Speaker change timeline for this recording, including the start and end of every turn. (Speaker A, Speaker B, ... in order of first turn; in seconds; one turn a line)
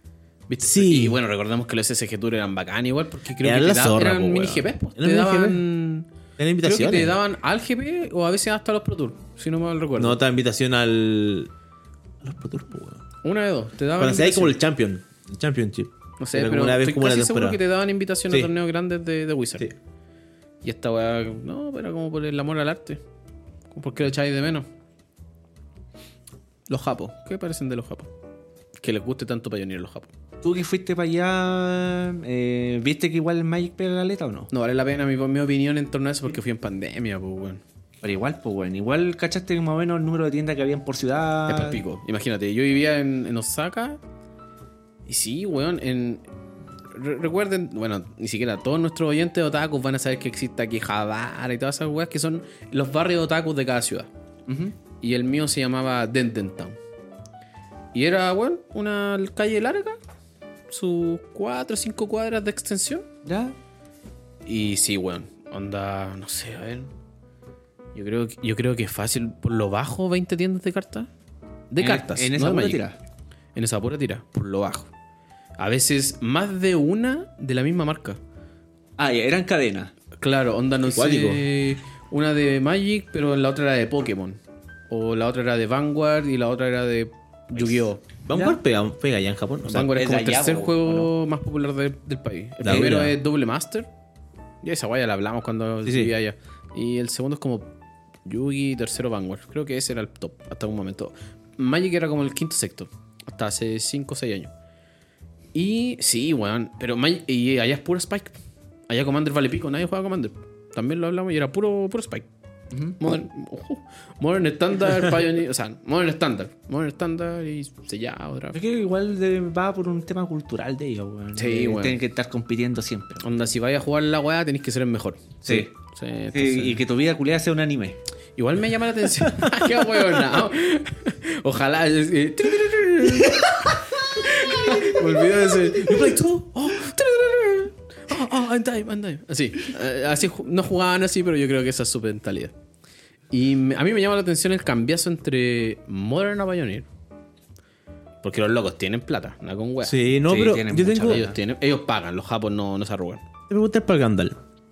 Speaker A: 0.5-6.1
Speaker B: 0.6-1.2
Speaker B: 3.4-5.6
Speaker B: 6.4-7.1
Speaker A: 6.6-10.2
Speaker B: 9.9-11.5
Speaker B: 12.2-13.0
Speaker A: 13.2-14.6
Speaker B: 14.0-17.6
Speaker A: 16.2-19.7
Speaker A: 20.6-23.0
Speaker A: 23.7-24.7
Speaker A: 26.7-28.1
Speaker A: 28.8-30.1
Speaker C: 30.4-34.5
Speaker A: 34.5-37.6
Speaker C: 38.0-41.8
Speaker A: 41.5-44.0
Speaker A: 45.1-46.2
Speaker A: 46.9-54.1
Speaker C: 54.5-54.8
Speaker A: 55.0-56.8
Speaker A: 57.9-60.0
Speaker A: 60.7-63.0
Speaker C: 63.2-63.5
Speaker A: 64.5-66.9
Speaker A: 67.9-71.1
Speaker A: 71.7-72.8
Speaker C: 71.8-73.0
Speaker A: 73.5-74.9
Speaker A: 75.6-78.2
Speaker C: 79.0-79.9
Speaker A: 80.2-84.4
Speaker B: 80.8-81.5
Speaker A: 84.9-88.0
Speaker C: 87.6-88.6
Speaker B: 88.2-89.9
Speaker A: 89.7-93.9
Speaker C: 89.8-91.1
Speaker B: 92.6-93.2
Speaker A: 94.6-97.7
Speaker B: 95.8-96.1
Speaker A: 98.2-104.5
Speaker A: 105.5-108.3
Speaker A: 108.9-112.2
Speaker C: 112.7-113.0
Speaker A: 113.0-118.6
Speaker C: 118.5-123.2
Speaker A: 121.3-122.0
Speaker A: 123.2-126.8
Speaker C: 125.4-125.7
Speaker C: 126.3-128.0
Speaker A: 128.4-142.5
Speaker B: 129.2-129.8
Speaker B: 135.7-136.6
Speaker A: 143.3-146.9
Speaker A: 148.2-150.0
Speaker B: 149.8-151.3
Speaker C: 150.3-151.4
Speaker A: 151.0-153.2
Speaker B: 153.5-154.4